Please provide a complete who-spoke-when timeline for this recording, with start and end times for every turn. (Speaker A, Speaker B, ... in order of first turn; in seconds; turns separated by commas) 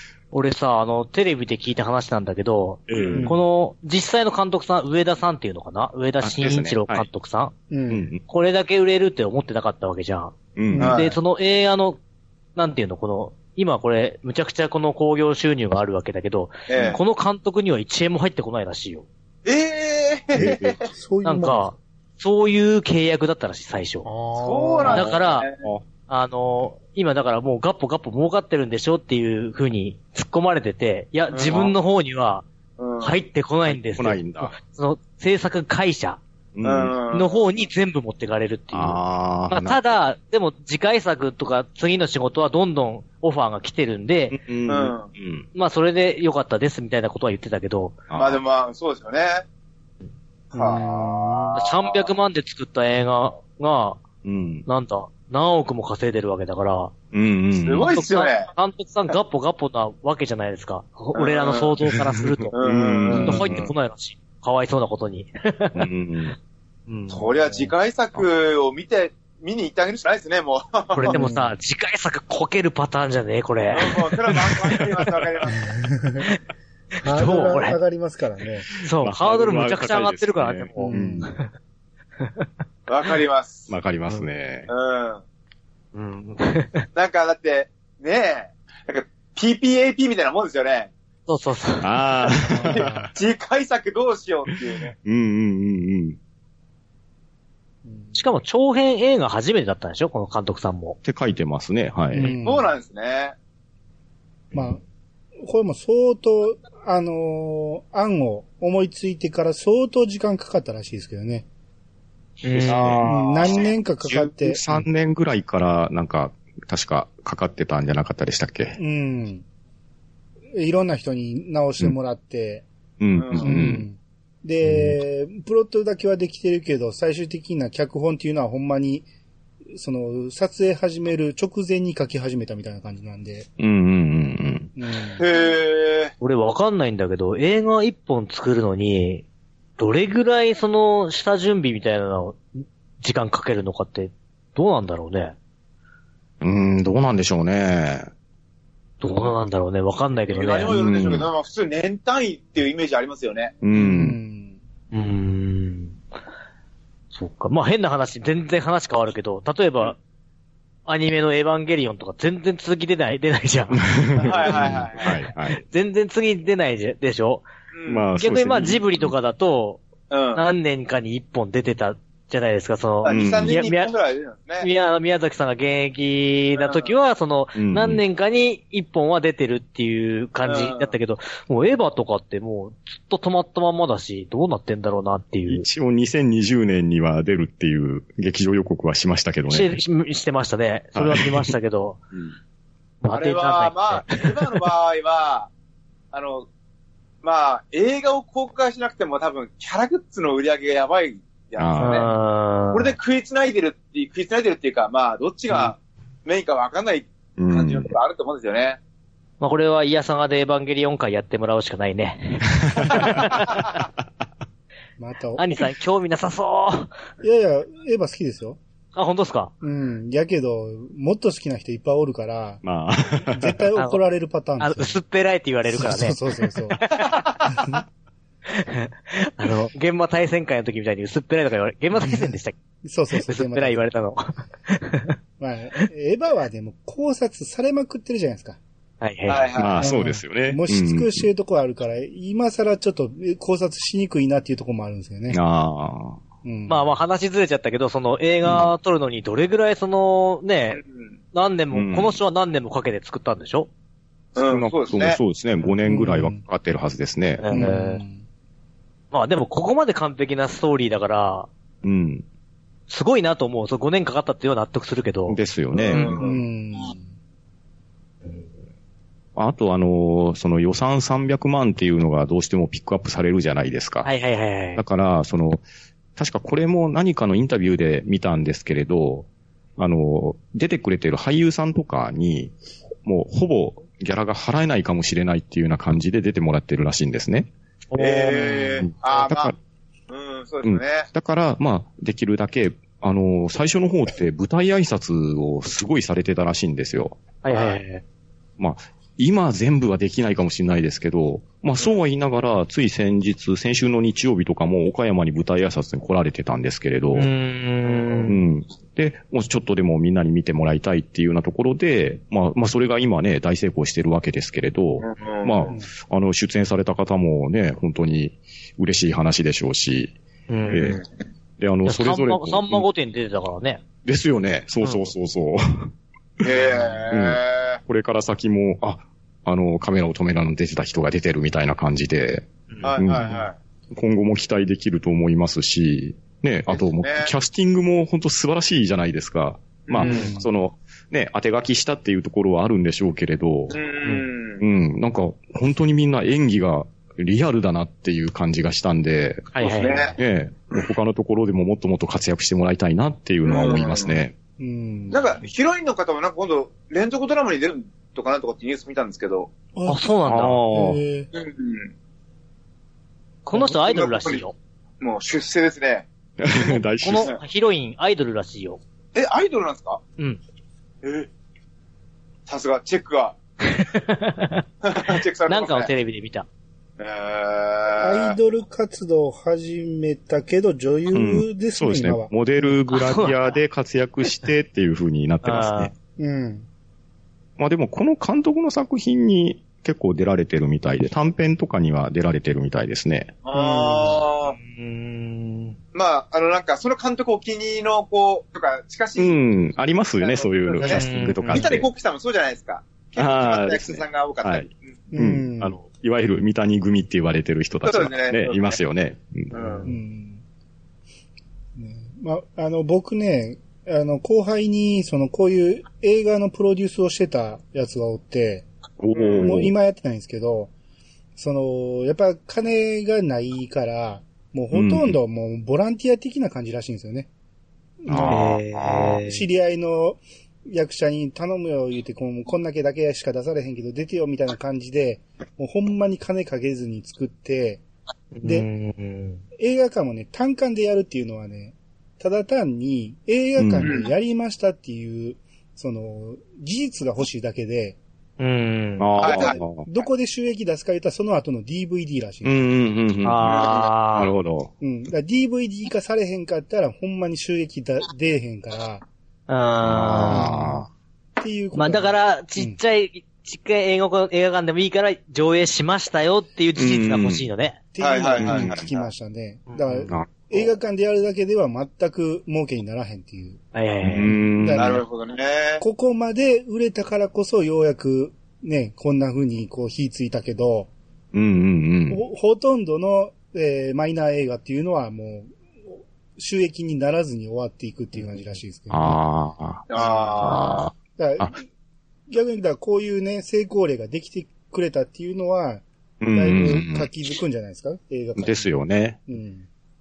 Speaker A: 0.3-7.5, Speaker B: 2.9-3.3, Speaker C: 2.9-3.2, Speaker D: 3.1-3.4, Speaker B: 6.2-7.1, Speaker D: 7.7-8.1, Speaker B: 7.9-8.2, Speaker A: 8.3-12.0, Speaker B: 10.6-11.0, Speaker C: 10.8-11.2, Speaker A: 12.6-19.1, Speaker C: 16.7-17.0, Speaker B: 16.7-17.0, Speaker C: 19.4-20.9, Speaker D: 20.4-21.8, Speaker B: 20.4-20.8, Speaker A: 21.2-24.1, Speaker D: 24.1-25.1, Speaker C: 24.4-25.6, Speaker A: 24.9-25.5, Speaker A: 26.1-32.5, Speaker C: 31.3-31.7, Speaker C: 32.8-33.2, Speaker A: 33.0-36.2, Speaker B: 33.7-34.5, Speaker B: 36.5-37.0, Speaker C: 36.6-37.7, Speaker A: 37.1-44.4, Speaker B: 38.7-39.8, Speaker B: 44.3-45.5, Speaker C: 44.7-45.1, Speaker A: 45.5-48.0, Speaker B: 48.1-48.4, Speaker C: 48.1-49.5, Speaker D: 50.5-51.6, Speaker C: 50.5-52.1, Speaker A: 51.5-54.0, Speaker B: 54.2-54.6, Speaker A: 54.7-56.9, Speaker B: 57.1-58.0, Speaker C: 57.5-58.5, Speaker A: 57.8-62.6, Speaker C: 61.1-61.7, Speaker B: 62.5-63.7, Speaker C: 62.5-63.7, Speaker D: 63.1-63.5, Speaker A: 63.2-65.7, Speaker B: 65.7-66.4, Speaker A: 66.9-67.2, Speaker C: 67.1-71.2, Speaker A: 71.0-74.8, Speaker D: 71.0-71.5, Speaker C: 73.7-75.8, Speaker D: 75.8-76.2, Speaker D: 77.0-78.7, Speaker A: 77.0-77.8, Speaker A: 78.8-81.5, Speaker B: 79.0-81.3, Speaker D: 80.8-81.3, Speaker A: 82.2-82.5, Speaker C: 82.9-83.7, Speaker B: 83.7-84.7, Speaker C: 84.7-85.2, Speaker A: 85.9-86.8, Speaker C: 87.0-90.9, Speaker A: 91.3-91.9, Speaker B: 91.8-93.1, Speaker D: 92.5-93.1, Speaker C: 93.1-95.0, Speaker B: 95.0-96.2, Speaker D: 97.8-98.2, Speaker A: 98.2-101.0, Speaker B: 101.0-102.4, Speaker D: 102.1-102.7, Speaker C: 102.4-103.4, Speaker D: 104.5-104.8, Speaker D: 105.4-111.5, Speaker A: 112.4-113.1, Speaker C: 112.6-113.7, Speaker B: 112.7-113.1, Speaker D: 113.1-114.6, Speaker B: 114.0-118.8, Speaker D: 118.8-119.5, Speaker D: 120.5-122.7, Speaker B: 123.0-123.9, Speaker C: 123.2-123.7, Speaker D: 123.4-129.1, Speaker B: 124.6-125.0, Speaker D: 129.7-133.5, Speaker B: 133.6-134.7, Speaker D: 134.8-135.2, Speaker C: 135.2-136.1, Speaker A: 136.2-139.2, Speaker A: 139.8-142.4, Speaker A: 143.0-145.4, Speaker B: 146.4-148.1, Speaker A: 149.0-150.8, Speaker C: 150.3-153.5, Speaker B: 150.7-151.3, Speaker B: 153.6-154.2, Speaker D: 153.8-154.6, Speaker A: 154.9-156.0, Speaker A: 157.1-160.0, Speaker A: 160.9-163.8, Speaker B: 163.7-165.6, Speaker C: 164.2-165.1, Speaker A: 164.4-167.5, Speaker C: 167.7-168.1, Speaker B: 167.9-169.1, Speaker A: 168.2-169.8, Speaker C: 170.1-170.4, Speaker A: 170.3-173.9, Speaker C: 173.0-174.7, Speaker B: 173.1-173.6, Speaker A: 174.6-185.7, Speaker C: 176.6-176.9, Speaker B: 177.6-178.0, Speaker C: 180.4-180.9, Speaker B: 185.5-189.7, Speaker A: 189.5-192.0, Speaker B: 191.0-191.5, Speaker A: 193.0-194.2, Speaker C: 193.1-195.5, Speaker C: 196.1-196.5, Speaker C: 197.2-202.1, Speaker B: 201.6-202.0, Speaker A: 201.8-202.9, Speaker C: 202.7-208.8, Speaker B: 207.4-207.9, Speaker A: 209.4-213.5, Speaker B: 212.7-213.9, Speaker D: 215.0-215.6, Speaker A: 215.4-216.9, Speaker D: 217.2-218.6, Speaker A: 218.9-219.5, Speaker D: 219.6-222.6, Speaker B: 222.6-223.7, Speaker D: 223.3-225.0, Speaker A: 224.6-226.2, Speaker D: 225.7-226.8, Speaker A: 226.7-227.3, Speaker C: 227.0-227.4, Speaker D: 227.5-227.8, Speaker A: 228.5-232.6, Speaker D: 232.0-232.3, Speaker D: 232.8-233.8, Speaker A: 233.3-235.1, Speaker D: 235.4-238.6, Speaker A: 239.0-239.5, Speaker C: 239.3-239.8, Speaker B: 239.6-241.3, Speaker D: 239.8-245.4, Speaker B: 245.3-246.2, Speaker D: 246.4-246.9, Speaker A: 246.7-250.8, Speaker B: 248.4-248.7, Speaker C: 250.8-251.1, Speaker A: 251.3-253.7, Speaker B: 251.7-252.2, Speaker C: 254.3-255.2, Speaker B: 254.4-257.4, Speaker D: 255.9-256.4, Speaker A: 257.4-258.0, Speaker D: 257.5-258.2, Speaker A: 259.1-261.5, Speaker B: 261.8-262.2, Speaker A: 262.9-265.4, Speaker B: 265.3-266.1, Speaker C: 265.8-266.4, Speaker D: 266.2-267.1, Speaker B: 269.4-274.1, Speaker A: 274.0-274.8, Speaker B: 274.8-275.6, Speaker B: 276.2-279.3, Speaker B: 279.8-287.5, Speaker A: 287.9-288.9, Speaker C: 288.0-289.5, Speaker B: 288.8-289.6, Speaker C: 290.1-291.1, Speaker B: 290.6-297.2, Speaker A: 297.4-298.0, Speaker C: 297.5-297.8, Speaker B: 298.6-307.3, Speaker A: 307.1-308.4, Speaker B: 308.3-320.1, Speaker C: 315.0-315.8, Speaker A: 320.5-321.0, Speaker B: 320.7-321.0, Speaker B: 321.6-322.9, Speaker A: 321.9-323.8, Speaker B: 324.1-325.9, Speaker A: 324.8-325.1, Speaker C: 326.4-327.8, Speaker A: 326.6-327.0, Speaker B: 327.1-333.3, Speaker C: 332.8-333.6, Speaker B: 333.9-343.8, Speaker C: 336.7-337.3, Speaker C: 339.9-340.3, Speaker A: 340.0-340.4, Speaker D: 340.0-340.5, Speaker C: 343.7-344.6, Speaker B: 344.6-349.6, Speaker A: 349.5-350.2, Speaker C: 349.6-350.1, Speaker B: 350.1-354.3, Speaker C: 353.4-354.2, Speaker D: 354.6-355.4, Speaker C: 355.1-359.5, Speaker D: 359.7-360.0, Speaker A: 359.9-360.7, Speaker B: 360.3-361.0, Speaker D: 360.7-361.3, Speaker C: 361.3-361.9, Speaker A: 363.5-364.6, Speaker C: 363.6-364.4, Speaker C: 365.0-366.1, Speaker B: 366.4-367.3, Speaker A: 367.0-368.8, Speaker C: 369.1-370.0, Speaker C: 371.0-371.3, Speaker C: 372.5-373.4, Speaker A: 373.7-376.5, Speaker C: 374.8-375.9, Speaker C: 377.0-378.4, Speaker D: 378.0-382.3, Speaker B: 381.1-385.9, Speaker A: 382.9-383.4, Speaker A: 385.4-385.9, Speaker D: 386.2-386.7, Speaker B: 387.6-393.3, Speaker C: 393.4-394.6, Speaker A: 393.5-395.8, Speaker C: 395.9-399.4, Speaker B: 399.2-401.9, Speaker C: 400.2-404.8, Speaker A: 400.9-401.7, Speaker B: 403.2-409.5, Speaker D: 405.1-405.8, Speaker C: 407.8-408.8, Speaker C: 409.5-409.9, Speaker A: 409.5-409.9, Speaker D: 409.9-410.4, Speaker D: 411.8-418.7, Speaker B: 419.0-419.7, Speaker C: 419.1-419.5, Speaker D: 419.4-420.7, Speaker D: 421.4-427.3, Speaker B: 424.7-425.2, Speaker D: 428.0-428.5, Speaker B: 428.1-429.2, Speaker A: 428.3-429.4, Speaker D: 429.2-437.8, Speaker A: 438.3-439.4, Speaker D: 439.6-448.0, Speaker B: 443.6-444.0, Speaker C: 443.8-444.1, Speaker A: 448.4-449.1, Speaker B: 449.0-449.8, Speaker C: 449.2-450.0, Speaker D: 449.2-452.7, Speaker B: 452.4-454.7, Speaker A: 453.2-454.3, Speaker C: 453.5-453.9, Speaker D: 454.8-459.1, Speaker A: 459.5-460.5, Speaker B: 459.8-460.9, Speaker D: 460.2-460.8, Speaker D: 461.4-462.8, Speaker A: 461.7-467.8, Speaker B: 466.8-467.5, Speaker D: 467.9-473.6, Speaker C: 468.0-469.1, Speaker B: 468.4-468.8, Speaker A: 469.7-470.1, Speaker B: 470.1-470.7, Speaker A: 473.8-474.3, Speaker B: 474.0-475.0, Speaker D: 474.2-475.0, Speaker C: 474.8-475.8, Speaker D: 475.8-480.9, Speaker B: 481.3-482.2, Speaker D: 482.1-489.2, Speaker B: 488.9-489.9, Speaker C: 489.9-490.8, Speaker D: 490.0-490.6, Speaker B: 490.4-491.5, Speaker D: 491.2-491.6, Speaker D: 492.3-498.7, Speaker B: 496.2-497.1, Speaker B: 498.4-499.2, Speaker D: 499.3-499.7